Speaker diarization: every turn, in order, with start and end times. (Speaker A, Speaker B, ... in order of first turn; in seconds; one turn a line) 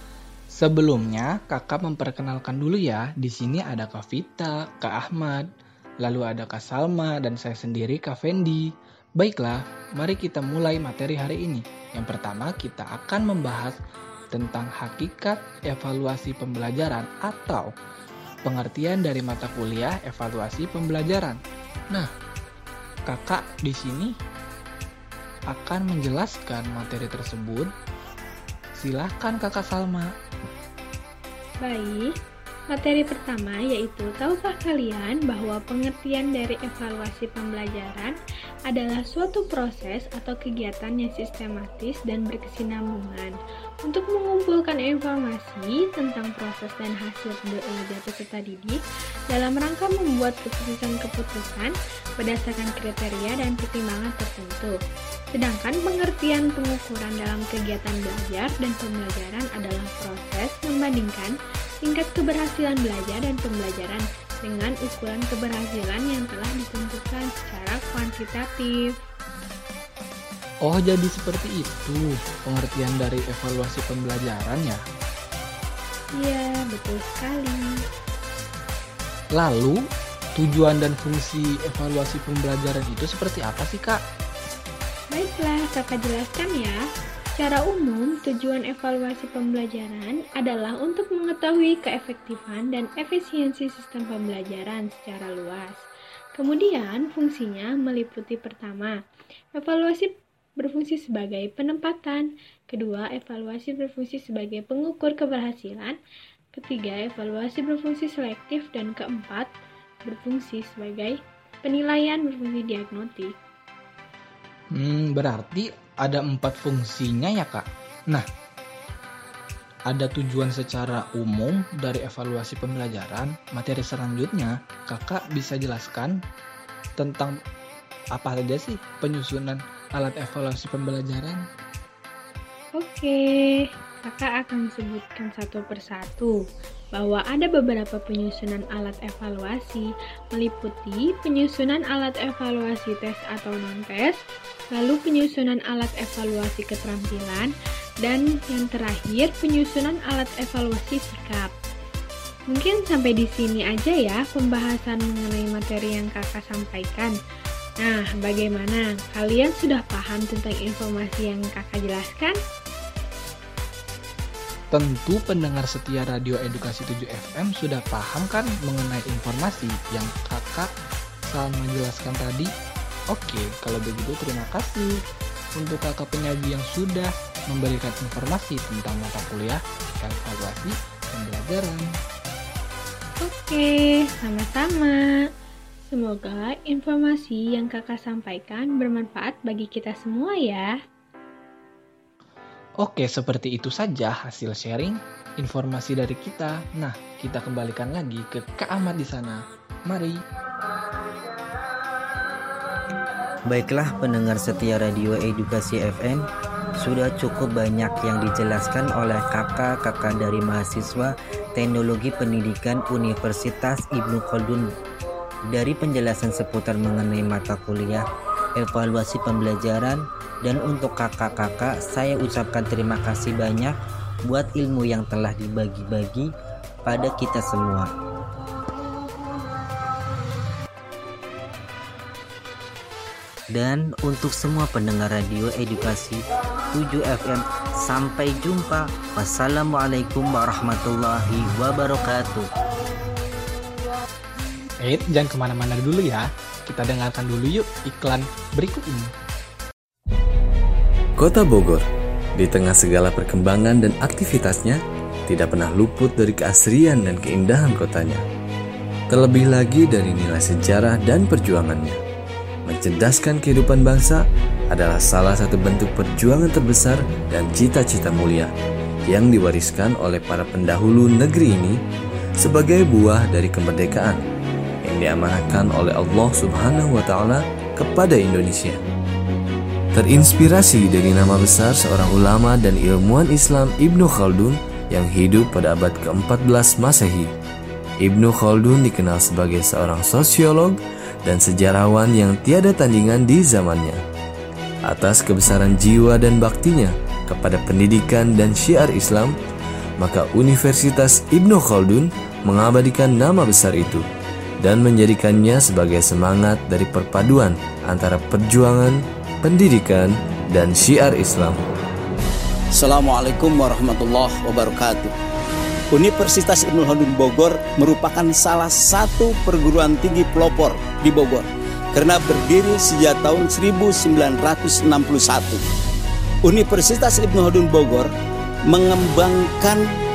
Speaker A: 0.5-13.8
Speaker A: 14.3-17.8
Speaker A: 18.4-22.1
Speaker A: 23.1-24.2
Speaker A: 25.5-27.7
Speaker A: 28.8-30.1
Speaker B: 31.6-32.1
Speaker B: 32.7-38.1
Speaker B: 38.7-48.8
Speaker B: 49.3-54.8
Speaker B: 55.3-68.9
Speaker A: 70.6-74.8
Speaker B: 76.2-77.8
Speaker A: 79.3-84.0
Speaker B: 85.1-86.8
Speaker B: 87.4-95.8
Speaker B: 96.4-99.0
Speaker B: 99.6-106.0
Speaker B: 106.5-109.5
Speaker B: 110.1-113.3
Speaker A: 114.7-118.3
Speaker A: 119.9-126.2
Speaker A: 127.0-127.4
Speaker A: 128.1-131.5
Speaker B: 132.8-136.4
Speaker B: 136.9-144.2
Speaker B: 144.8-147.5
Speaker B: 148.0-151.5
Speaker B: 152.5-157.2
Speaker B: 157.8-162.4
Speaker A: 164.7-170.7
Speaker A: 171.3-172.5
Speaker A: 173.1-175.0
Speaker A: 175.6-181.9
Speaker B: 183.2-185.2
Speaker B: 185.9-190.7
Speaker A: 192.8-200.2
Speaker C: 203.5-206.3
Speaker C: 206.8-214.7
Speaker C: 215.5-218.0
Speaker C: 218.6-223.7
Speaker C: 224.2-226.3
Speaker C: 226.8-227.9
Speaker C: 233.5-242.5
Speaker A: 244.8-249.1
Speaker D: 251.2-251.8
Speaker D: 252.4-258.2
Speaker D: 259.1-262.0
Speaker D: 262.7-268.5
Speaker D: 269.1-271.8
Speaker D: 272.4-274.2
Speaker D: 274.8-278.8
Speaker D: 279.9-287.3
Speaker D: 288.0-294.0
Speaker D: 294.9-299.3
Speaker D: 300.0-304.1
Speaker D: 304.6-311.7
Speaker E: 312.7-315.1
Speaker E: 315.9-325.6
Speaker E: 326.4-328.1
Speaker E: 328.7-329.9